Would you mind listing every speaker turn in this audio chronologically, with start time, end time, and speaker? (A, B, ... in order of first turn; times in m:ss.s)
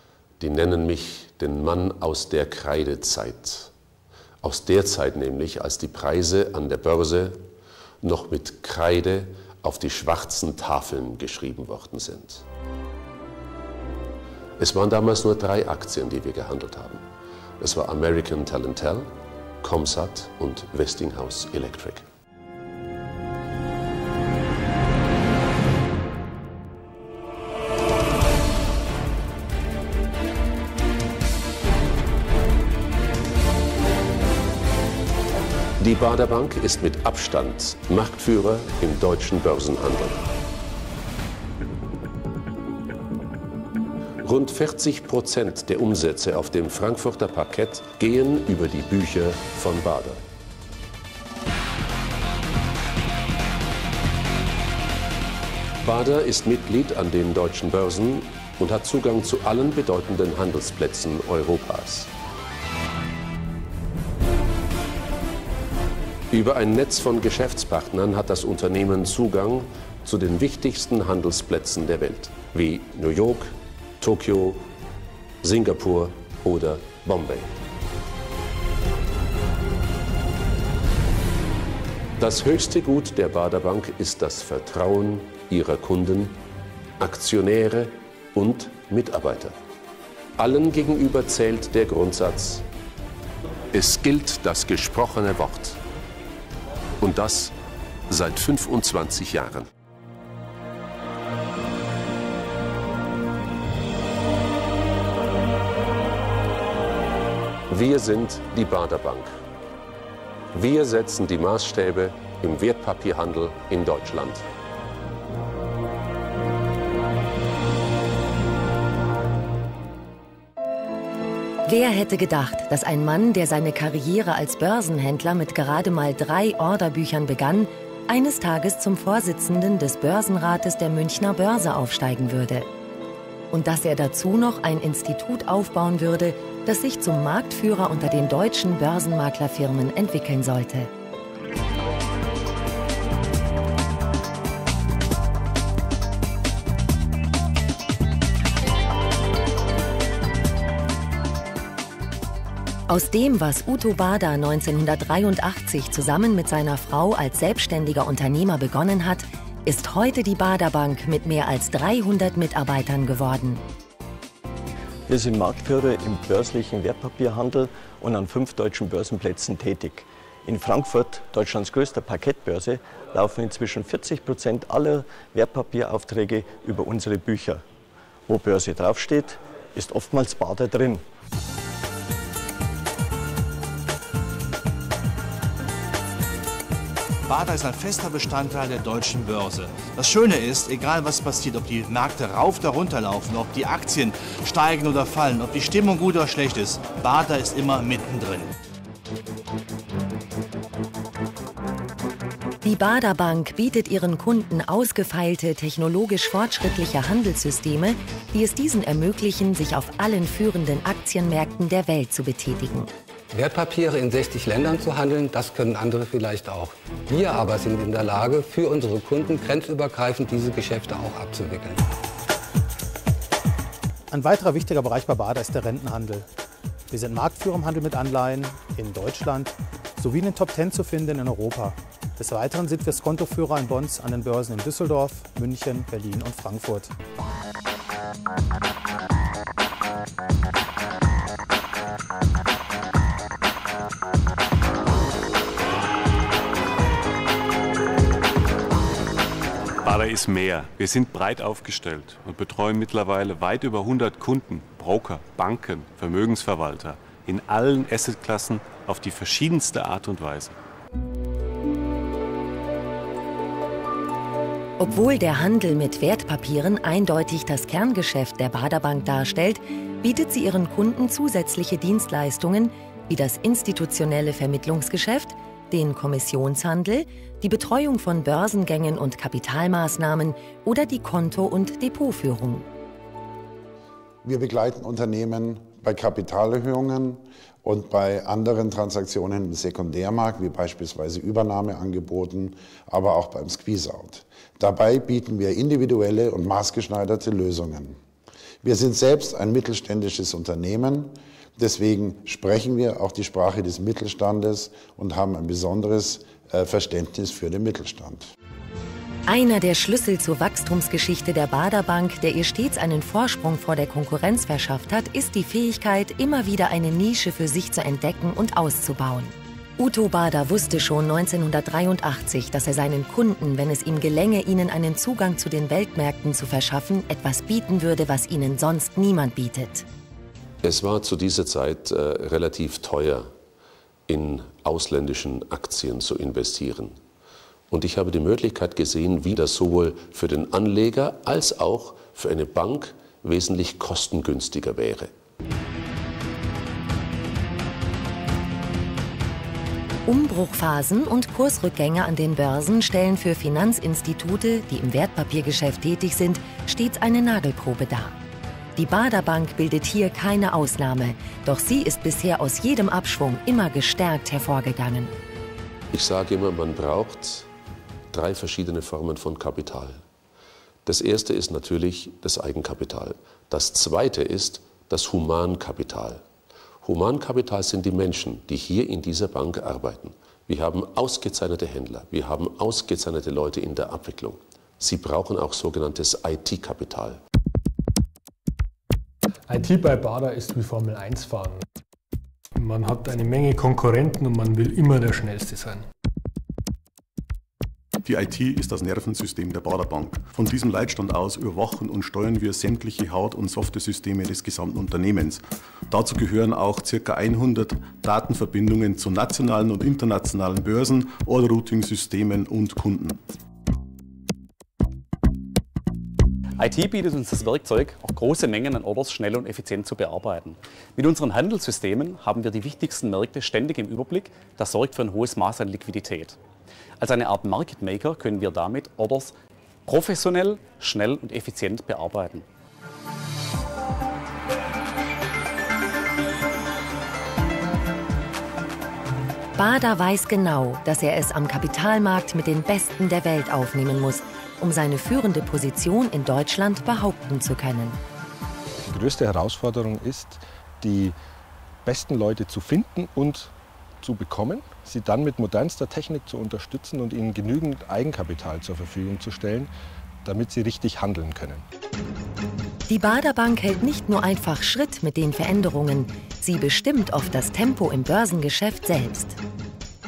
0:00.4-0:03.7 A
0:04.4-0:07.4 A
0:08.0-0:12.4 A
0:14.6-0:17.0 A
0:17.6-0:19.1 A
0:19.6-0:22.0 A
0:35.8-0:40.2 A
0:44.2-0:50.2 A
0:55.8-1:02.1 A
1:06.3-1:14.7 A
1:15.4-1:17.6 A
1:22.2-1:26.4 A
1:27.0-1:29.6 A
1:30.4-1:32.7 A
1:33.7-1:35.8 A
1:37.0-1:37.5 A
1:38.1-1:39.7 A
1:47.7-1:49.3 A
1:50.5-1:54.5 A
2:01.7-2:12.7 B
2:13.5-2:20.9 B
2:32.9-2:43.6 B
2:45.1-2:57.6 C
2:58.3-3:01.0 C
3:07.3-3:18.5 D
3:22.6-3:32.9 B
3:33.3-3:41.8 E
3:44.1-3:46.3 F
3:46.9-3:56.9 F
4:09.8-4:20.6 G
4:24.8-4:42.7 B
4:44.2-4:58.0 H
4:58.6-5:08.3 H
5:09.3-5:29.9 B
5:30.6-5:33.3 A
5:34.1-5:37.0 A
5:37.7-5:45.1 A
5:50.1-5:58.2 B
5:58.8-6:05.1 B
6:05.9-6:07.5 A
6:08.1-6:10.0 A
6:10.9-6:16.2 A
6:16.8-6:27.2 A
6:29.5-6:31.6 I
6:32.6-6:35.9 I
6:38.0-6:53.2 J
6:56.6-7:06.4 K
7:07.0-7:09.3 K
7:09.9-7:12.4 K
7:19.6-7:28.0 B
7:28.9-7:31.2 L
7:31.8-7:39.7 L
7:40.2-7:41.6 L
7:42.9-7:49.4 B